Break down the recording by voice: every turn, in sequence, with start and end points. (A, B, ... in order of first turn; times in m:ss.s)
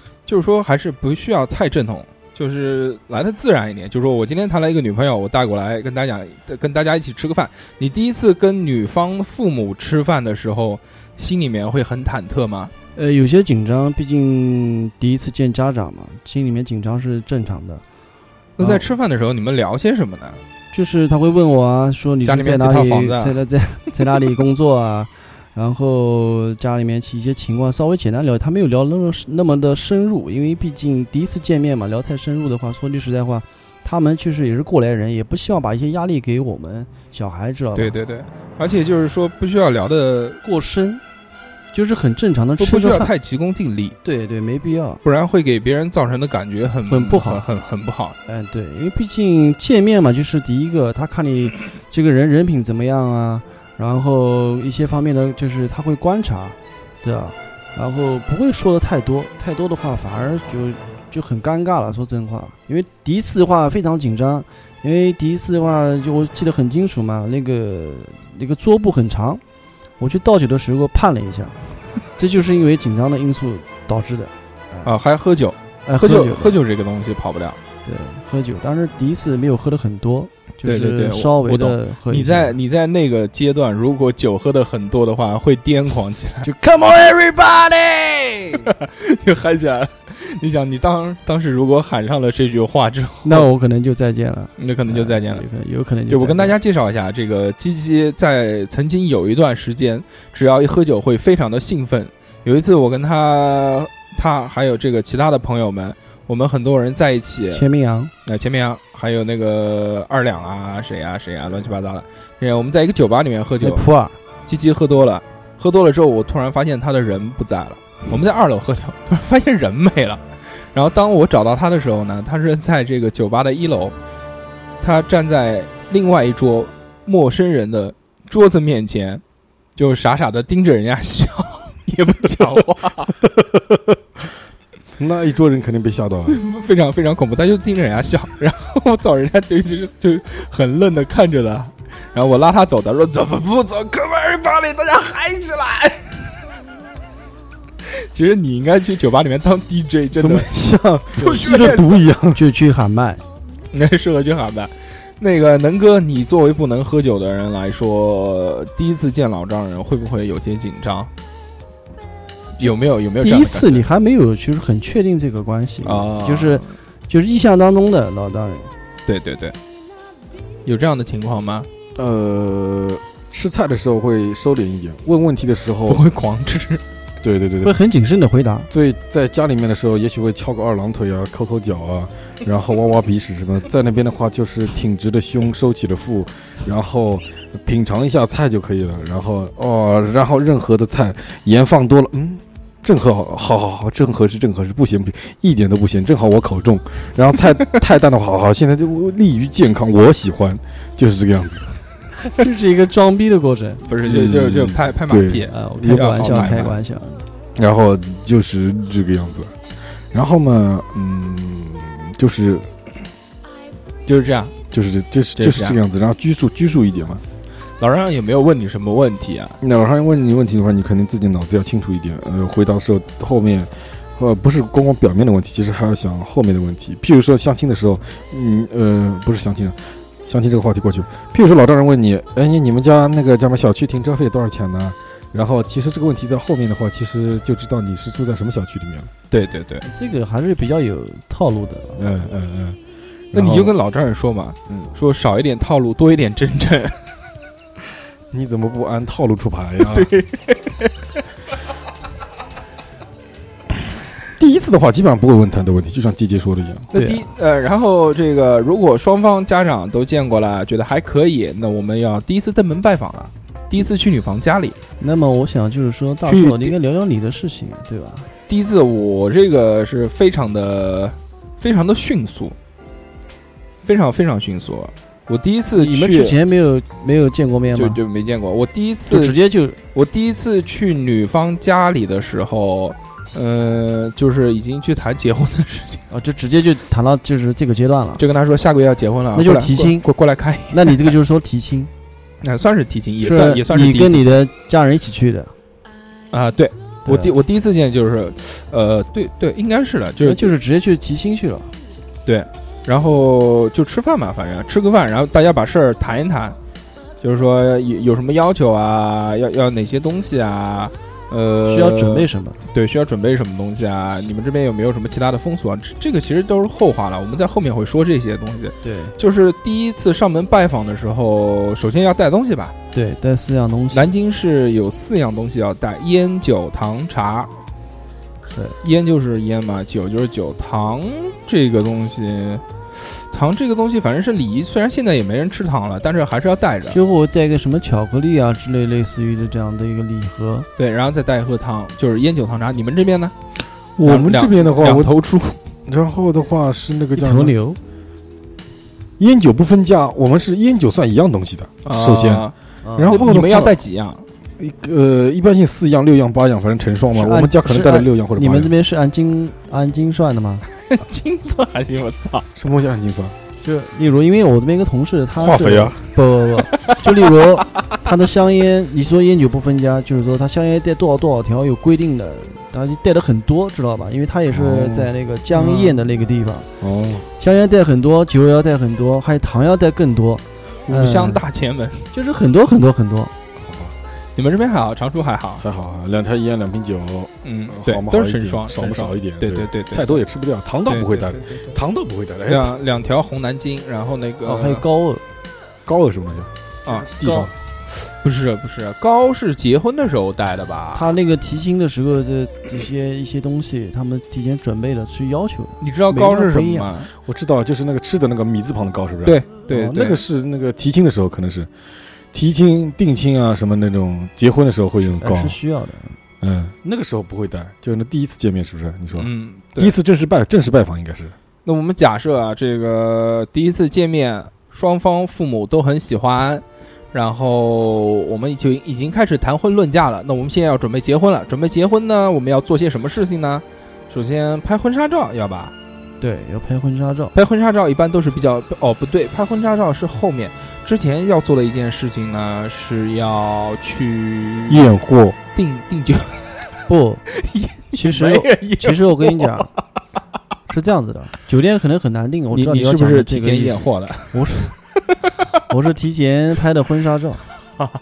0:00.3-0:12.7 A
0:13.0-0:17.8 B
0:18.6-0:20.4 A
0:18.6-0:18.8 B
0:20.7-0:38.0 B
0:22.2-0:23.4 A
0:37.8-0:40.4 A
0:40.4-0:41.0 B
0:41.7-0:43.1 B
0:42.6-0:44.0 A
0:44.0-0:45.0 B
0:45.0-0:48.2 A
0:46.9-0:47.4 B
0:48.3-1:09.4 B
1:10.0-1:11.6 B
1:12.2-1:14.9 B
1:14.8-1:17.6 A
1:15.8-1:16.6 B
1:17.8-1:22.5 B
1:20.6-1:26.5 A
1:26.4-1:28.7 B
1:28.7-1:33.5 A
1:33.2-1:36.6 B
1:34.6-1:35.4 A
1:36.1-1:47.6 A
1:47.5-1:48.1 B
1:48.2-1:53.8 A
1:53.6-1:54.2 B
1:54.4-2:03.9 A
2:04.8-2:09.2 A
2:09.8-2:13.1 A
2:13.2-2:13.8 C
2:15.0-2:16.4 C
2:16.3-2:26.2 A
2:28.1-2:30.5 A
2:30.2-2:32.4 C
2:31.2-2:32.1 A
2:32.3-2:33.2 B
2:33.7-2:41.1 A
2:42.6-2:43.8 A
2:42.6-2:48.7 B
2:45.8-2:46.7 A
2:49.0-2:49.6 A
2:50.6-2:51.7 A
2:51.9-2:56.0 C
2:55.9-2:56.8 A
2:57.2-2:57.8 C
2:57.6-2:58.7 B
2:58.7-3:21.7 C
3:22.3-3:23.8 B
3:23.9-3:26.8 A
3:24.0-3:26.5 C
3:25.5-3:27.2 B
3:27.6-3:29.5 C
3:30.1-3:32.7 C
3:34.0-3:34.6 A
3:34.7-3:37.2 C
3:35.4-3:35.8 A
3:37.8-3:39.6 A
3:39.6-3:59.1 C
3:59.3-3:59.8 A
3:59.8-4:02.1 B
4:02.0-4:02.8 C
4:03.3-4:03.7 C
4:03.3-4:07.0 A
4:04.7-4:04.9 C
4:08.3-4:10.1 C
4:09.9-4:10.9 A
4:14.4-4:16.9 C
4:16.9-4:24.8 A
4:16.9-4:17.2 B
4:25.0-4:28.3 B
4:26.2-4:26.7 A
4:28.5-4:32.6 A
4:33.8-4:36.4 A
4:35.8-4:38.0 B
4:37.7-4:39.4 A
4:39.1-4:39.8 B
4:39.9-4:46.0 A
4:46.1-4:48.2 B
4:48.2-4:51.1 A
4:49.3-4:50.0 B
4:50.7-4:51.9 B
4:52.4-4:54.4 A
4:53.2-4:55.5 B
4:56.3-5:00.5 A
4:57.0-4:57.3 B
5:00.2-5:01.7 B
5:02.2-5:06.6 A
5:07.2-5:22.8 A
5:11.6-5:12.6 B
5:18.8-5:19.1 B
5:22.9-5:24.1 B
5:23.9-5:27.5 A
5:28.4-5:28.8 B
5:28.8-5:37.0 A
5:36.9-5:40.7 B
5:40.8-5:43.3 A
5:44.0-5:45.1 C
5:44.0-5:45.6 A
5:45.8-5:47.5 C
5:47.2-5:47.8 B
5:49.2-5:53.8 C
5:51.8-5:52.5 A
5:52.8-5:53.2 B
5:53.1-5:54.2 A
5:54.6-5:58.7 C
5:57.1-6:00.6 B
6:00.9-6:02.5 A
6:02.5-6:03.3 C
6:03.6-6:16.7 B
6:05.4-6:06.0 C
6:06.9-6:07.1 A
6:14.5-6:15.1 C
6:15.5-6:16.0 A
6:16.8-6:17.2 C
6:17.4-6:21.4 B
6:20.9-6:22.1 A
6:22.1-6:23.3 B
6:23.6-6:24.0 C
6:24.4-6:25.6 A
6:25.6-6:32.8 C
6:27.4-6:30.2 A
6:30.9-6:31.4 A
6:32.5-6:34.8 A
6:34.4-6:35.2 B
6:35.8-6:36.5 C
6:36.8-6:37.1 A
6:37.1-6:37.5 C
6:37.2-6:37.5 B
6:38.1-6:41.1 A
6:40.9-6:46.9 B
6:45.8-6:47.1 A
6:47.2-6:51.7 C
6:49.2-6:50.2 A
6:52.3-6:55.6 C
6:55.2-6:56.2 B
6:56.4-7:01.3 C
6:59.2-6:59.9 A
7:01.6-7:15.7 A
7:16.2-7:17.3 B
7:17.3-7:24.9 A
7:24.7-7:25.4 C
7:25.5-7:26.7 A
7:26.9-7:27.2 B
7:27.3-7:29.7 A
7:27.9-7:29.7 B
7:30.7-7:34.7 B
7:32.5-7:34.8 A
7:35.7-7:37.4 B